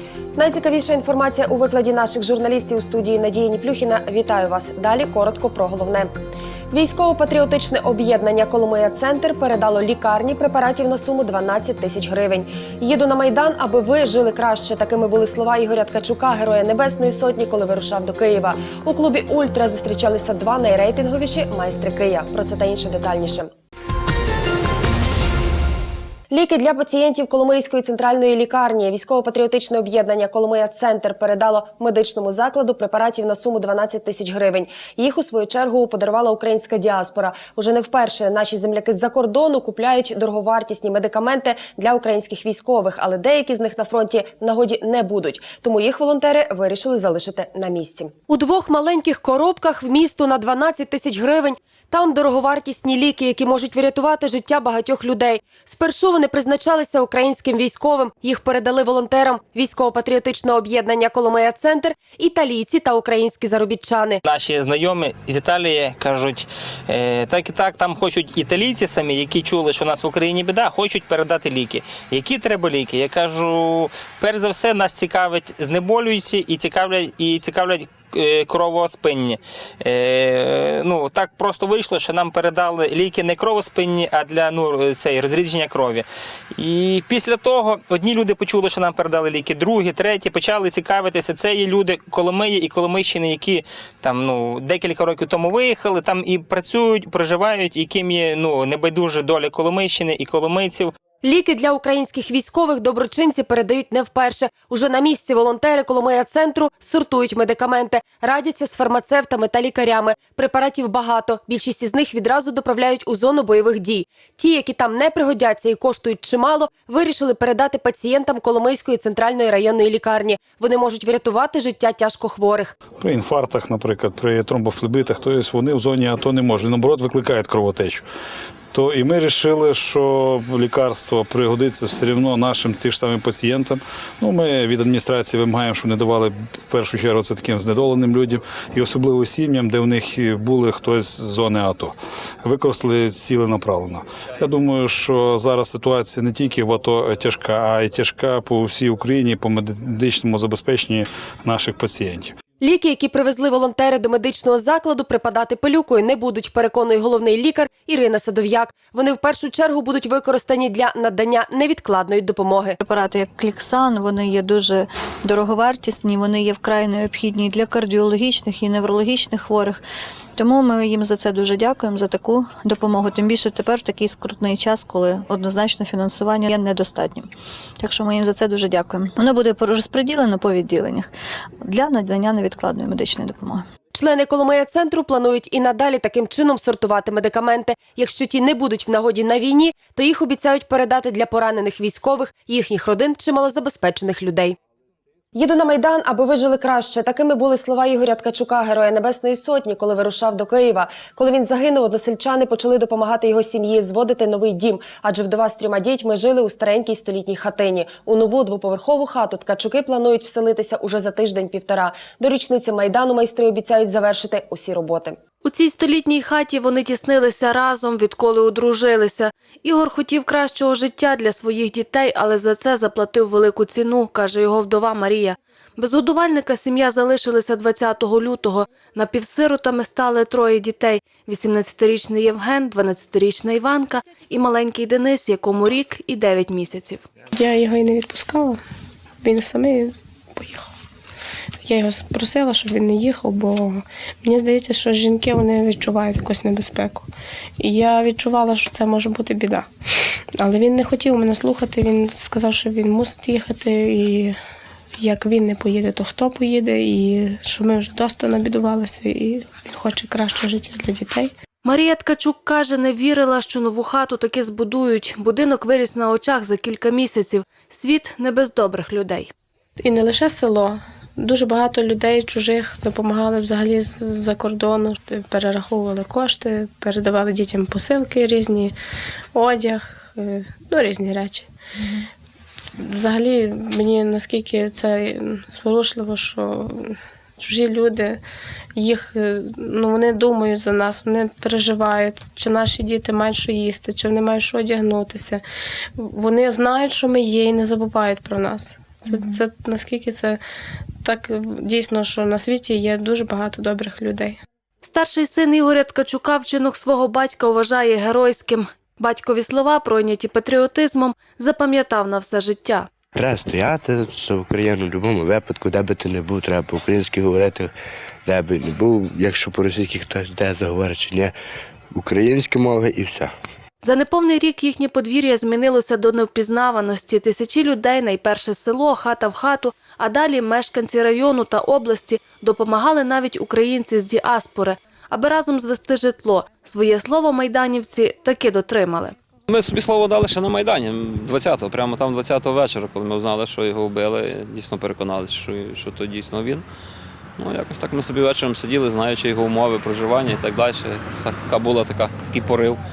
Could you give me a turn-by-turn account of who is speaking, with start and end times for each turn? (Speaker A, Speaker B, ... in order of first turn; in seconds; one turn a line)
Speaker A: 0.3-6.1
Speaker A: 6.7-23.5
Speaker A: 26.3-64.2
Speaker B: 64.2-100.9
Speaker A: 101.2-122.7
Speaker C: 123.0-128.0
Speaker C: 128.7-152.3
Speaker A: 152.6-162.8
Speaker D: 162.8-169.8
Speaker D: 170.4-183.7
Speaker A: 183.9-194.6
Speaker A: 195.3-215.2
Speaker E: 215.4-237.0
Speaker F: 237.3-238.6
Speaker F: 239.2-240.6
Speaker F: 241.6-247.1
Speaker F: 247.6-249.7
Speaker F: 250.4-254.3
Speaker F: 255.0-261.3
Speaker E: 261.6-269.3
Speaker F: 269.8-278.7
Speaker F: 279.3-281.5
Speaker F: 282.8-288.2
Speaker F: 288.8-295.4
Speaker F: 296.0-300.4
Speaker F: 301.0-304.4
Speaker E: 304.8-312.9
Speaker G: 313.1-317.7
Speaker G: 318.2-321.3
Speaker G: 321.9-323.3
Speaker E: 323.8-339.2
Speaker H: 339.5-346.6
Speaker H: 347.4-352.8